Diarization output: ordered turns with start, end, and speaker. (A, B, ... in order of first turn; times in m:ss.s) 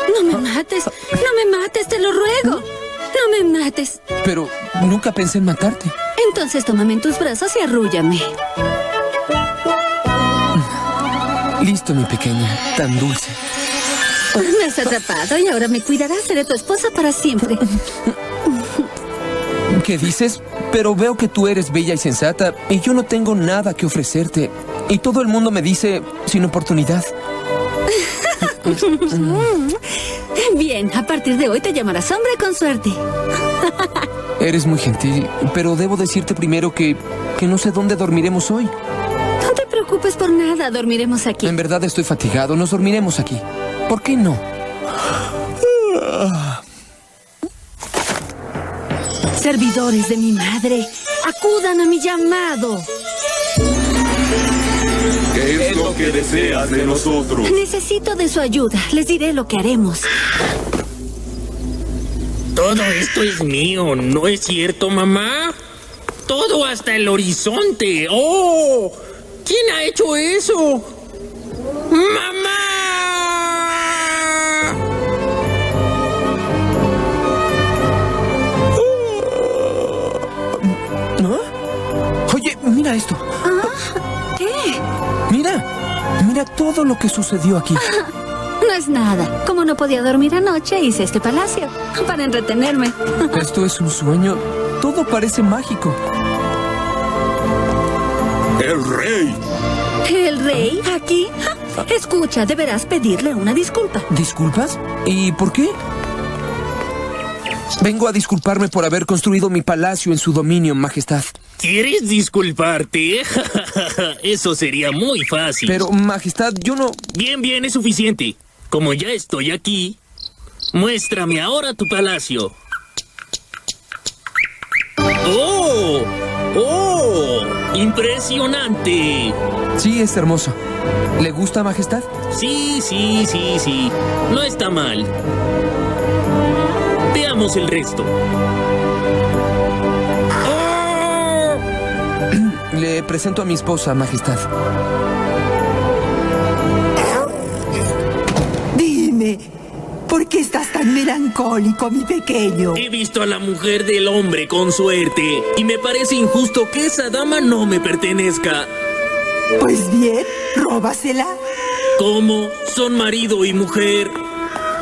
0:00.1-0:04.0 A
0:04.2-0:05.9 B
0:06.2-0:08.3 A
0:11.6-0:13.4 B
0:14.4-0:17.6 A
0:18.5-0:18.8 A
0:19.7-0:27.1 B
0:27.9-0:29.8 A
0:28.7-0:29.5 B
0:30.3-0:33.0 A
0:33.6-0:33.9 A
0:34.4-0:38.7 B
0:39.4-0:41.5 A
0:41.4-0:44.4 B
0:49.4-0:52.9 A
0:55.3-0:57.6 C
0:57.4-1:00.1 A
1:02.6-1:05.5 D
1:06.2-1:10.9 D
1:11.9-1:14.8 D
1:18.8-1:20.0 B
1:20.6-1:21.4 B
1:22.3-1:23.2 B
1:23.4-1:24.8 A
1:25.3-1:25.6 B
1:26.2-1:27.8 B
1:27.7-1:28.1 A
1:28.6-1:33.5 A
1:33.3-1:36.0 B
1:38.6-1:39.4 C
1:40.0-1:44.1 A
1:44.1-1:45.7 B
1:47.8-1:51.3 B
1:51.6-1:55.8 D
1:55.7-1:57.0 B
1:57.1-2:00.0 D
2:00.7-2:02.5 D
2:05.2-2:09.4 D
2:09.8-2:10.6 B
2:11.2-2:12.1 B
2:12.3-2:15.1 D
2:17.1-2:18.1 D
2:20.4-2:21.6 D
2:22.3-2:24.4 B
2:28.7-2:29.5 E
2:30.1-2:32.8 E
2:32.7-2:38.7 D
2:39.6-2:41.4 E
2:42.0-2:44.1 D